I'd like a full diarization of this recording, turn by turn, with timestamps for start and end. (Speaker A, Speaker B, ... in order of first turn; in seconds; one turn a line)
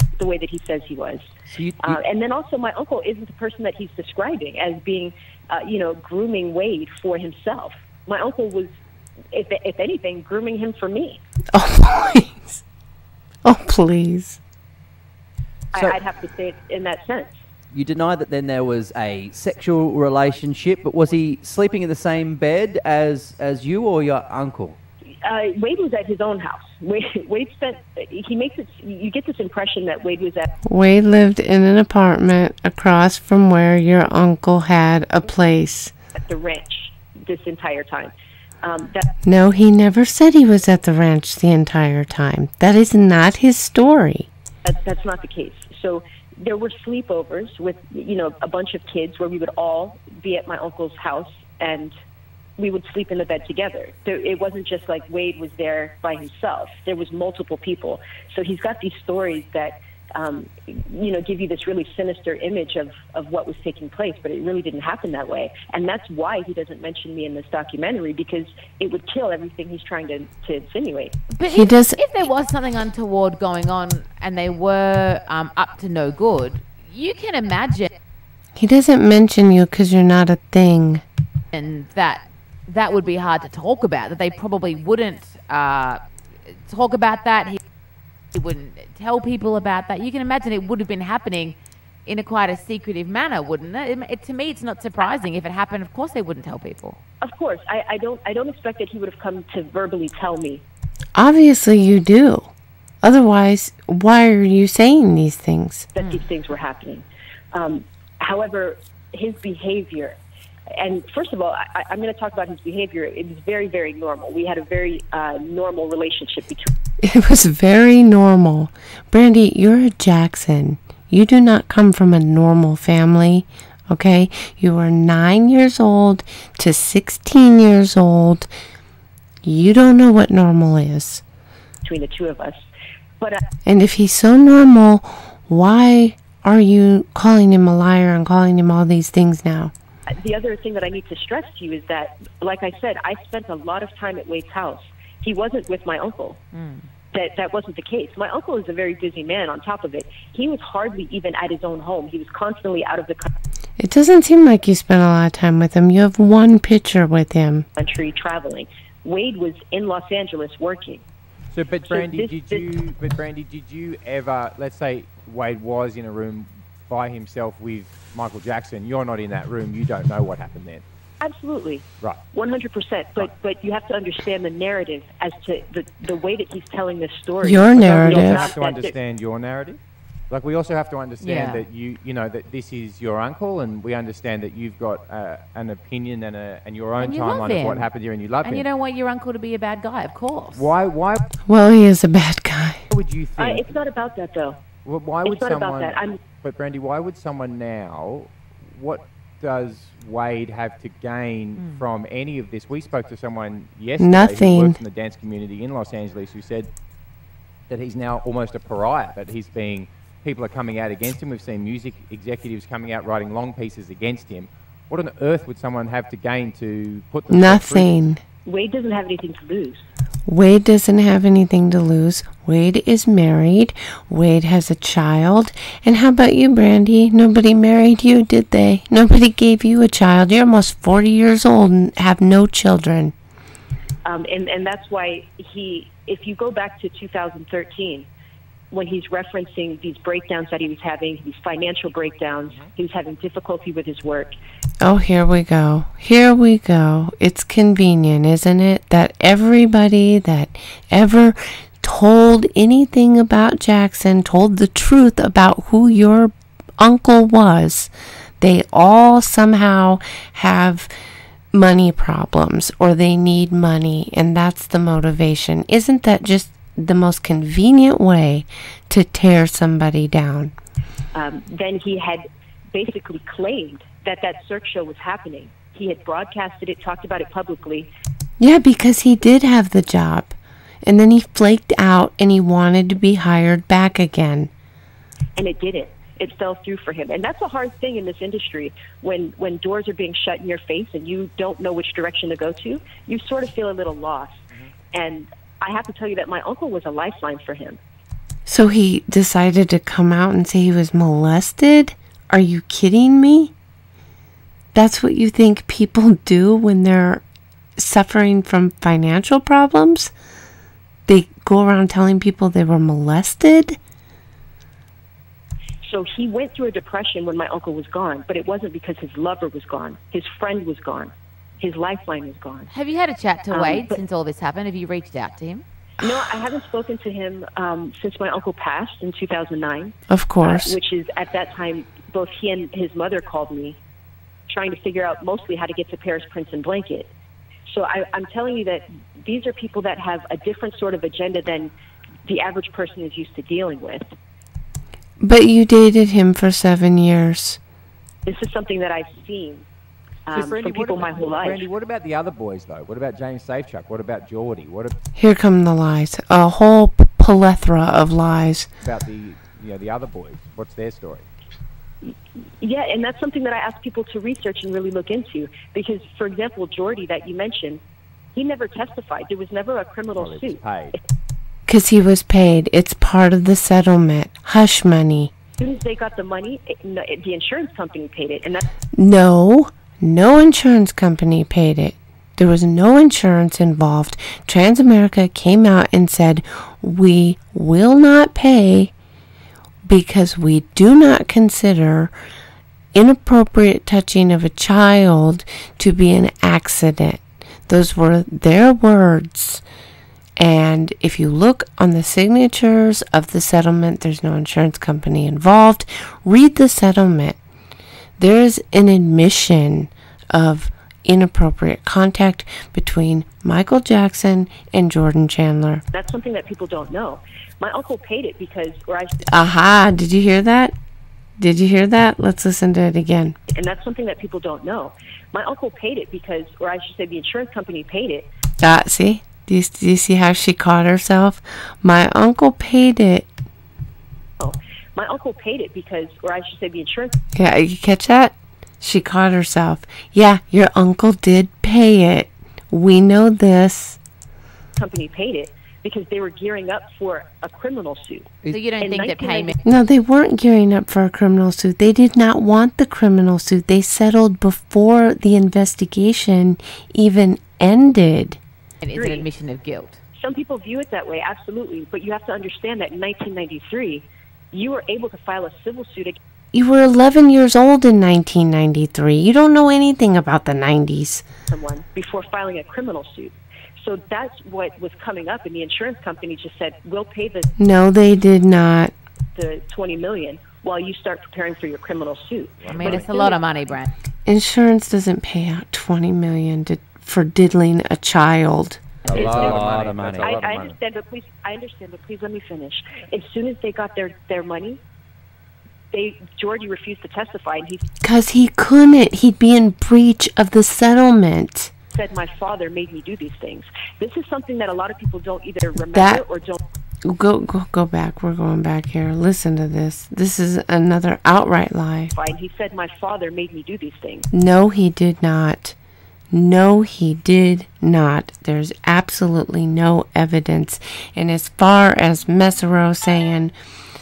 Speaker A: 0.2-8.7
Speaker B: 1.5-2.0
Speaker A: 9.3-11.2
Speaker C: 11.5-12.6
Speaker C: 13.4-14.4
Speaker A: 15.7-17.4
Speaker B: 17.7-24.8
Speaker A: 25.2-30.5
Speaker C: 30.6-35.9
Speaker A: 36.2-39.1
Speaker C: 39.2-44.3
Speaker A: 44.6-51.9
Speaker A: 52.6-71.2
Speaker D: 71.3-77.9
Speaker C: 71.5-72.0
Speaker C: 78.6-81.0
Speaker D: 81.5-87.6
Speaker D: 88.3-97.0
Speaker A: 97.2-100.6
Speaker C: 101.2-102.5
Speaker C: 103.0-105.9
Speaker A: 106.0-110.2
Speaker A: 110.8-116.7
Speaker C: 117.0-128.5
Speaker C: 129.4-131.2
Speaker A: 131.8-132.7
Speaker C: 133.7-139.7
Speaker A: 140.1-146.4
Speaker D: 146.5-146.9
Speaker A: 147.1-153.3
Speaker C: 153.8-157.7
Speaker A: 157.8-161.0
Speaker E: 161.5-170.8
Speaker A: 161.9-162.7
Speaker A: 171.2-179.0
Speaker C: 177.4-178.5
Speaker E: 178.0-179.8
Speaker E: 180.3-188.7
Speaker D: 181.2-181.7
Speaker D: 187.0-187.9
Speaker D: 188.4-190.7
Speaker E: 190.6-191.2
Speaker C: 191.5-192.8
Speaker E: 192.9-193.8
Speaker A: 193.4-194.6
Speaker E: 194.8-206.7
Speaker A: 195.2-196.2
Speaker D: 201.6-201.8
Speaker C: 204.0-204.8
Speaker E: 207.7-217.9
Speaker C: 217.3-218.2
Speaker A: 218.4-219.8
Speaker C: 220.3-233.2
Speaker A: 234.1-238.1
Speaker A: 238.7-244.4
Speaker C: 244.8-260.9
Speaker C: 261.5-270.5
Speaker A: 271.1-277.9
Speaker C: 278.4-284.5
Speaker A: 285.4-297.8
Speaker C: 298.5-303.5
Speaker C: 304.7-307.2
Speaker C: 307.8-310.1
Speaker C: 311.1-313.8
Speaker A: 315.8-322.7
Speaker D: 322.7-325.6
Speaker A: 323.5-324.0
Speaker A: 326.0-333.8
Speaker C: 330.1-330.8
Speaker A: 334.5-337.1
Speaker A: 337.7-341.7
Speaker A: 342.3-344.0
Speaker C: 345.2-347.6
Speaker A: 348.3-349.7
Speaker A: 350.3-351.7
Speaker E: 350.3-354.9
Speaker C: 355.2-358.7
Speaker E: 358.8-361.3
Speaker A: 362.0-367.8
Speaker A: 368.4-371.0
Speaker E: 370.2-371.0
Speaker C: 371.7-375.3
Speaker A: 375.6-378.6
Speaker C: 379.0-388.9
Speaker C: 389.9-392.1
Speaker C: 392.9-399.6
Speaker C: 400.4-407.4
Speaker C: 408.2-415.8
Speaker A: 415.9-419.1
Speaker C: 419.3-420.8
Speaker C: 421.4-423.4
Speaker A: 423.5-428.3
Speaker C: 428.6-433.3
Speaker A: 434.4-437.2
Speaker C: 437.4-444.0
Speaker A: 444.8-449.6
Speaker B: 448.4-448.7
Speaker D: 448.5-449.6
Speaker C: 449.6-458.4
Speaker D: 458.8-460.0
Speaker A: 458.9-459.3
Speaker A: 460.2-466.2
Speaker C: 466.5-471.2
Speaker A: 471.5-477.5
Speaker C: 477.6-478.9
Speaker A: 479.4-483.4
Speaker E: 482.6-483.1
Speaker D: 482.7-483.9
Speaker C: 484.3-488.8
Speaker E: 489.1-490.8
Speaker B: 489.1-490.3
Speaker A: 489.1-489.6
Speaker A: 490.2-494.8
Speaker A: 495.9-497.8
Speaker C: 498.0-501.7
Speaker A: 501.9-506.6
Speaker C: 505.9-506.2
Speaker C: 507.1-512.1
Speaker A: 512.1-514.3
Speaker C: 514.3-515.8
Speaker C: 516.3-523.5